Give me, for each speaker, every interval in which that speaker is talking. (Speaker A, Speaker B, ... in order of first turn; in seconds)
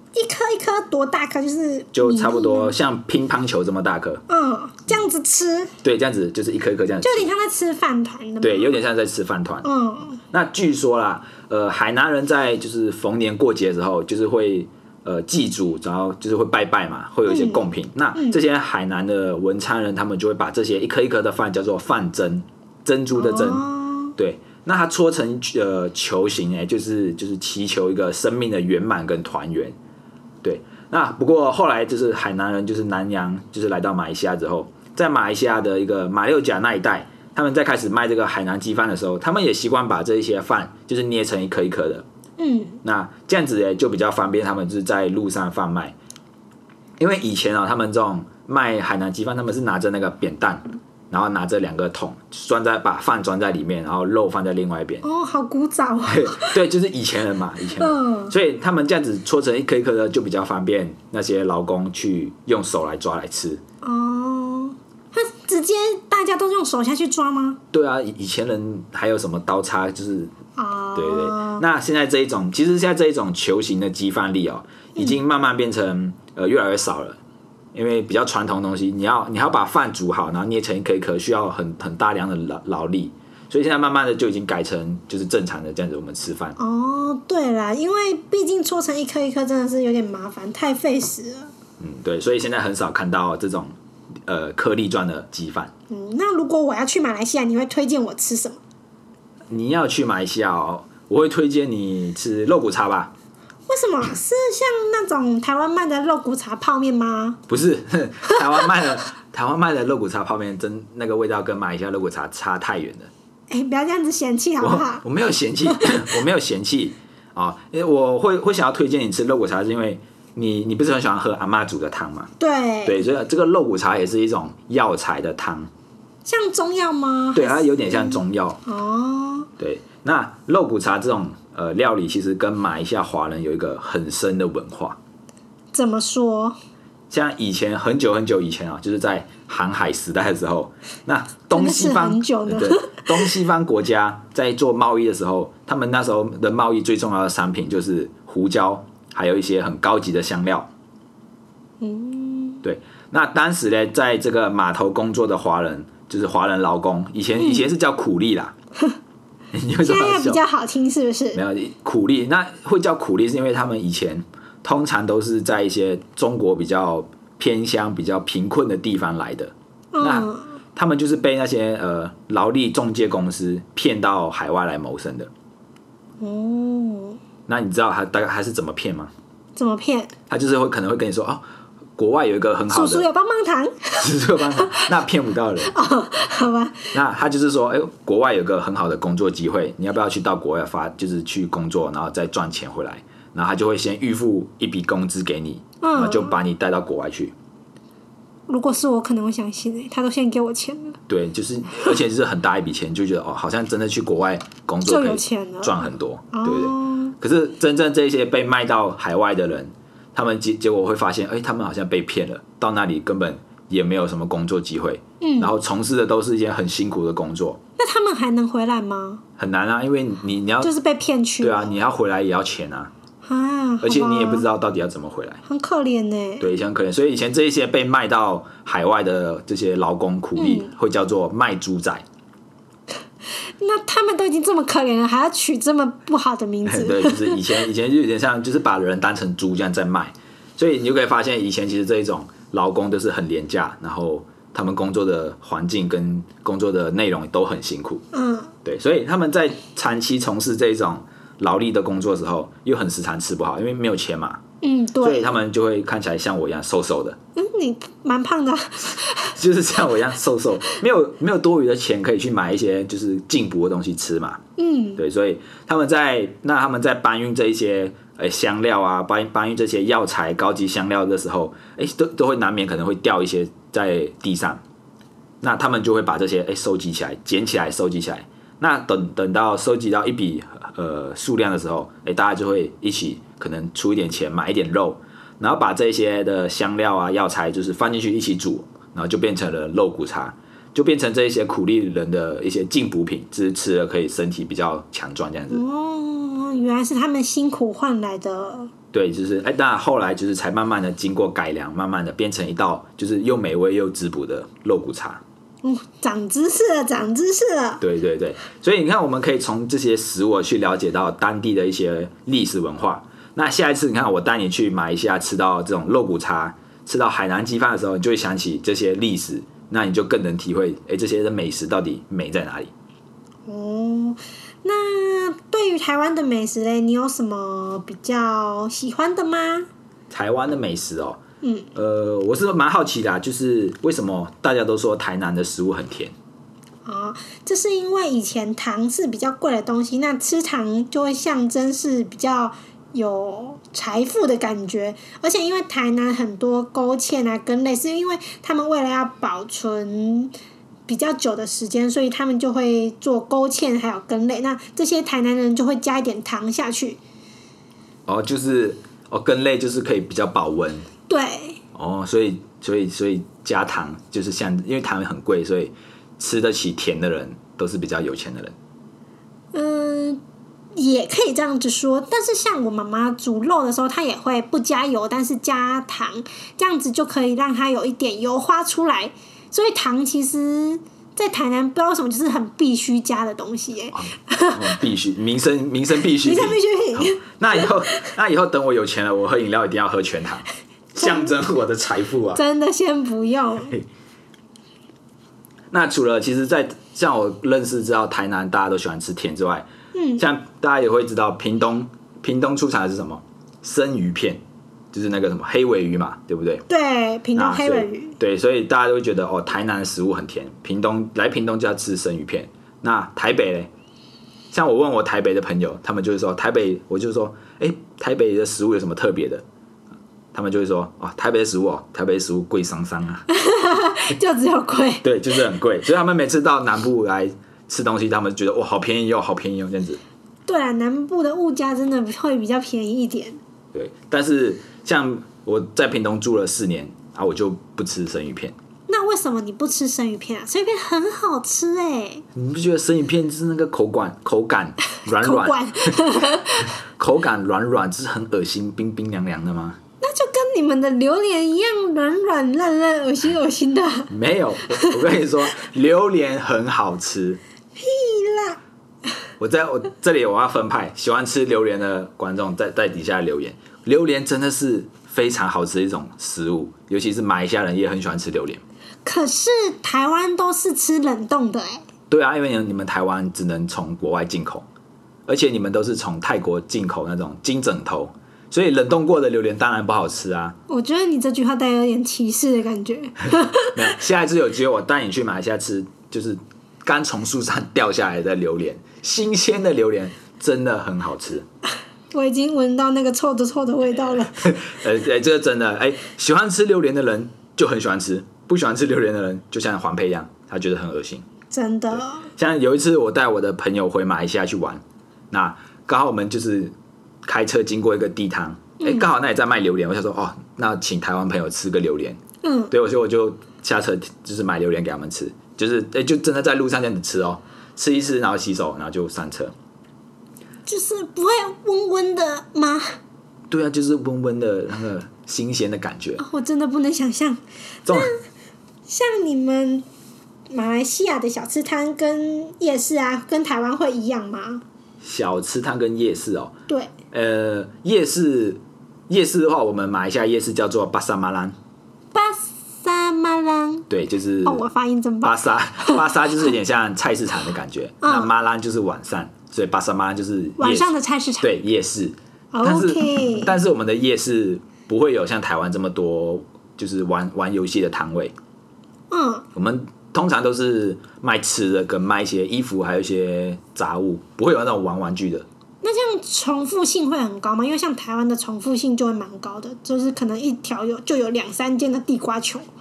Speaker A: 0.1-2.7, 4.3-5.7, 7.0-8.8, 9.6-10.2, 17.3-18.4, 23.1-24.1, 42.4-42.8, 55.0-56.6, 57.7-58.3, 63.8-67.6, 70.6-71.6, 86.6-91.5, 95.9-98.6, 103.7-107.4, 113.5-115.0, 122.4-123.0, 126.2-129.5, 135.7-136.6, 141.5-143.3, 151.8-152.6, 159.8-161.4, 169.9-170.6, 176.2-177.2, 179.6-180.1, 182.7-184.1, 185.6-186.9, 195.8-196.4, 198.5-201.0, 204.8-207.1, 215.2-215.5, 217.8-219.2, 220.6-221.7, 223.2-224.4, 225.4-226.5, 230.3-230.7, 233.6-237.4, 248.1-248.5, 254.6-255.3, 257.4-259.3, 264.6-265.0, 295.5-298.7, 305.6-307.8, 323.5-329.7, 331.4-331.7, 336.8-350.3, 350.9-357.0, 361.1-361.6, 369.5-370.2, 370.7-384.6, 386.0-388.1, 391.0-391.3, 392.3-393.8, 399.9-400.2, 406.7-408.1, 423.3-425.1, 430.4-433.4, 438.9-442.2, 445.1-446.7, 450.0-454.1, 457.8-458.6, 469.0-471.8, 480.7-483.8, 492.1-494.4, 501.5-502.3, 508.8-509.1, 512.4-512.7, 520.6-523.0, 526.2-528.1, 528.9-529.8, 530.5-534.6, 536.7-536.9, 542.1-543.9, 544.4-546.1, 548.0-548.3, 550.6-551.5, 552.5-553.5, 559.1-559.5, 565.8-572.6
Speaker B: 1.9-4.2, 5.8-7.3, 8.4-9.7, 10.3-29.8, 30.4-42.0, 42.8-45.9, 47.0-55.0, 56.1-63.6, 67.7-70.3, 70.9-77.2, 77.7-86.6, 91.8-93.7, 94.3-95.7, 99.5-103.1, 107.5-113.1, 114.6-122.3, 122.8-125.7, 127.3-128.6, 129.6-135.0, 137.1-150.7, 152.6-158.5, 159.5-160.4, 161.3-175.3, 177.5-179.1, 180.3-181.4, 182.0-183.1, 184.0-185.7, 186.9-197.3, 201.1-217.6, 219.4-220.7, 221.4-222.9, 223.8-225.4, 226.4-232.0, 236.6-248.0, 248.6-254.4, 255.0-257.2, 259.3-264.4, 265.0-274.6, 275.4-295.6, 298.9-305.2, 307.8-322.7, 330.1-331.2, 331.7-336.1, 358.1-360.9, 361.7-368.5, 383.9-392.4, 395.7-399.7, 400.2-404.4, 404.9-406.6, 407.3-413.7, 414.5-419.4, 420.3-423.2, 425.0-430.0, 433.7-438.5, 442.3-446.1, 446.9-449.8, 454.1-457.4, 459.4-468.6, 472.1-474.6, 475.3-480.6, 483.7-491.4, 494.3-501.2, 502.4-506.7, 507.2-512.2, 512.7-519.5, 523.5-526.2, 527.9-528.1, 535.0-536.5, 537.1-541.5, 543.9-544.6, 545.2-550.9, 551.4-558.3, 559.5-565.5